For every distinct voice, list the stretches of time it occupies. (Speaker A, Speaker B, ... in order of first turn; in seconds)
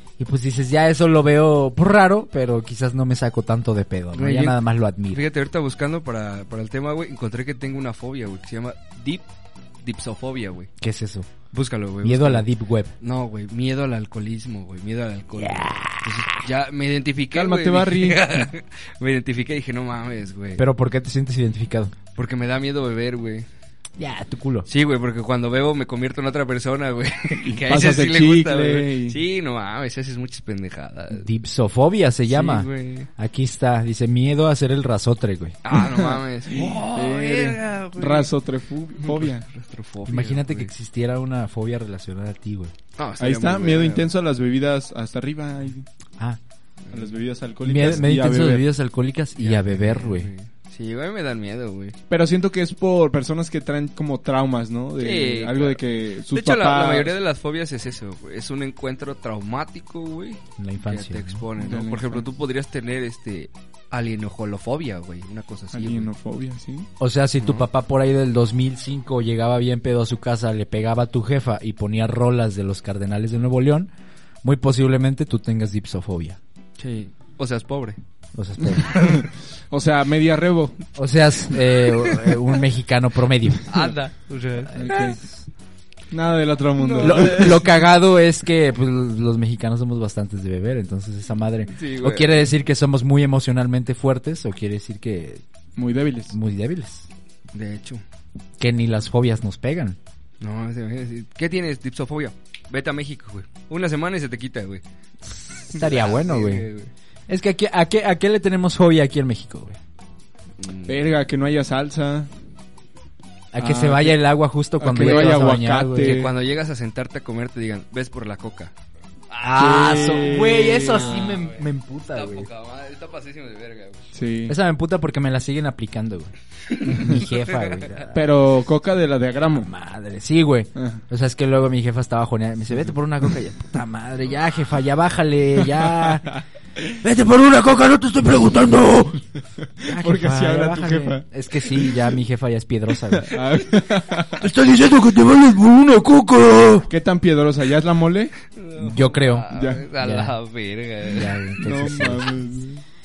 Speaker A: 0.2-5.2, 10.8-11.3, 12.0-12.9, 15.4-16.4, 20.6-21.9, 24.0-24.7, 31.1-35.6, 40.0-42.7, 47.6-50.3, 60.6-61.4, 67.0-73.9, 74.4-76.4, 78.3-78.9, 81.0-83.8, 84.8-85.3, 87.0-95.4, 96.3-97.0, 98.6-100.0, 105.3-106.7, 107.3-109.8, 113.5-116.2, 119.4-122.5, 124.5-128.2, 129.6-136.4, 136.9-139.2, 139.8-143.4, 144.4-146.9, 148.8-150.3, 151.1-152.3
Speaker B: 4.1-4.6, 5.1-9.2, 9.8-10.7, 11.5-12.4, 13.0-20.6, 22.1-23.4, 24.7-31.3, 32.3-33.1, 35.6-38.3, 39.0-40.7, 43.0-44.0, 49.4-52.0, 55.0-55.8, 56.3-66.1, 67.4-67.7, 76.8-78.0, 78.9-79.2, 81.8-82.5, 83.7-85.1, 86.8-87.6, 91.7-92.5, 97.5-98.0, 100.4-104.8, 105.7-106.9, 110.6-111.0, 115.0-115.4, 116.0-118.7, 119.3-124.0, 127.0-127.7, 148.6-151.4
Speaker C: 17.3-18.5, 27.4-29.2, 35.7-39.4, 43.2-45.9, 46.9-48.6, 52.1-57.1, 61.5-62.3, 65.7-66.9, 78.7-80.8, 84.7-85.2, 86.1-87.6, 95.8-96.3, 110.9-112.3, 113.6-114.2, 114.8-116.3, 119.5-121.0, 124.1-124.5, 128.1-129.7, 130.7-131.0, 139.6-141.9, 143.1-144.4, 146.9-148.3, 149.5-149.8, 151.6-152.8